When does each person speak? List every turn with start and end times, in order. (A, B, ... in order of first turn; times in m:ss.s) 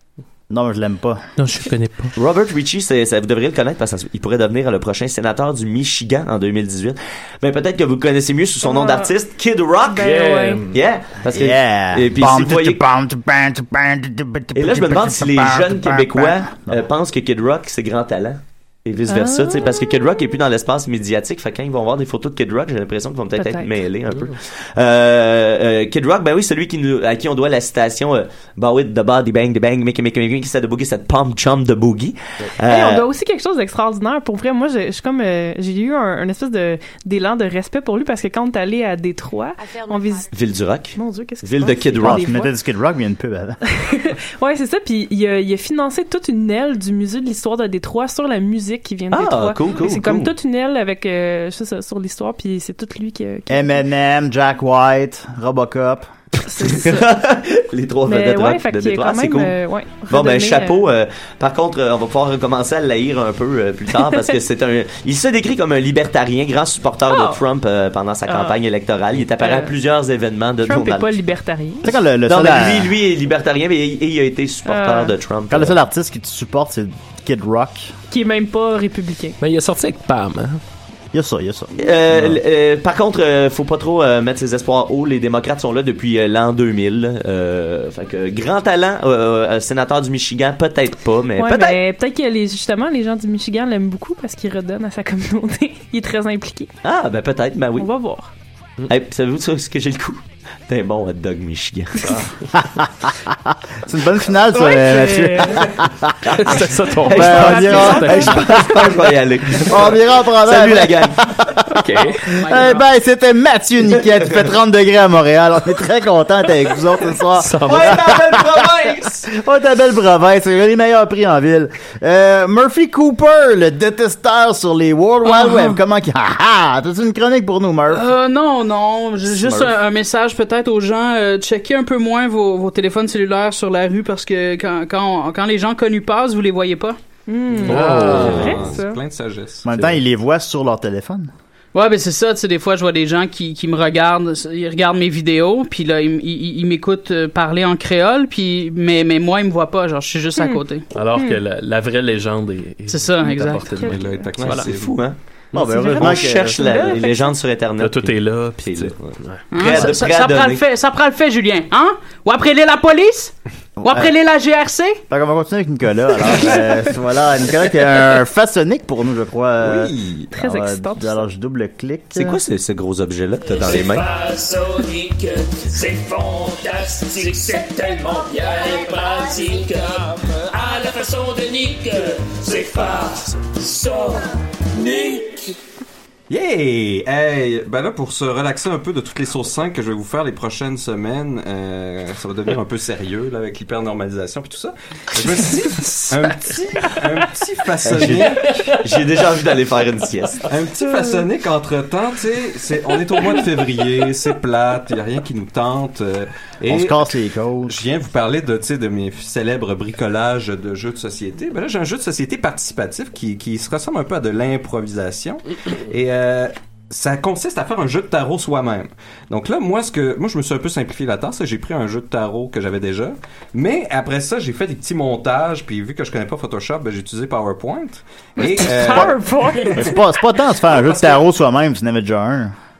0:00.5-0:01.2 A
0:01.4-0:02.1 B
0:02.2-0:10.2 C
0:08.6-0:09.1 D
0:09.8-0:10.6 D
0:10.0-0:10.8 B
0:10.7-0:12.8 C
0:11.3-0:16.8 A
0:14.5-0:33.1 C
0:19.1-0:19.7 D
0:23.4-0:23.7 D
0:32.6-0:40.3 D
0:40.3-0:42.3 C
0:41.0-0:42.5 D
0:42.0-0:43.6 A
0:43.8-0:53.8 D
0:49.1-0:50.3 C
0:53.5-0:56.1 A
0:56.4-0:57.1 D
0:56.6-0:59.6 C
0:58.1-1:00.9 D
1:00.1-1:11.2 C
1:07.1-1:07.4 D
1:08.3-1:08.6 D
1:09.4-1:09.7 D
1:10.6-1:11.9 D
1:11.8-1:13.0 A
1:12.2-1:15.8 C
1:14.6-1:15.1 D
1:15.5-1:17.9 A
1:18.1-1:19.4 D
1:19.4-1:20.6 B
1:21.1-1:22.4 A
1:21.8-1:31.8 C
1:31.4-1:36.7 D
1:36.8-1:37.9 C
1:37.8-1:38.3 D
1:38.9-1:42.2 C
1:42.5-1:46.5 A
1:44.5-1:45.6 D
1:46.3-1:51.3 C
1:46.4-1:48.3 B
1:47.1-2:08.1 A
1:47.2-1:48.6 D
1:51.7-1:52.2 B
1:52.2-1:52.8 E
1:57.4-1:58.0 B
1:57.7-1:59.0 C
1:57.8-1:58.6 F
2:07.9-2:17.0 E
2:09.3-2:09.7 C
2:17.3-2:19.0 D
2:17.6-2:19.6 F
2:17.6-2:18.7 B
2:19.6-2:21.3 A
2:21.7-2:30.8 E
2:30.4-2:31.4 D
2:30.9-2:34.7 B
2:32.9-2:33.8 E
2:33.6-2:34.6 D
2:33.9-2:35.0 F
2:34.5-2:35.2 C
2:35.5-2:36.9 A
2:35.6-2:37.3 D
2:35.9-2:40.6 C
2:37.8-2:39.9 B
2:39.5-2:43.3 E
2:43.8-2:44.1 A
2:43.8-2:45.0 E
2:45.1-2:52.4 A
2:49.6-2:50.3 F
2:50.3-2:51.2 D
2:52.1-2:54.0 C
2:53.4-3:05.5 G
3:06.3-3:18.8 F
3:17.8-3:20.4 C
3:20.5-3:27.1 F
3:26.7-3:27.8 A
3:27.6-3:49.9 F
3:48.4-3:50.1 D
3:49.7-3:52.5 A
3:50.7-3:51.2 F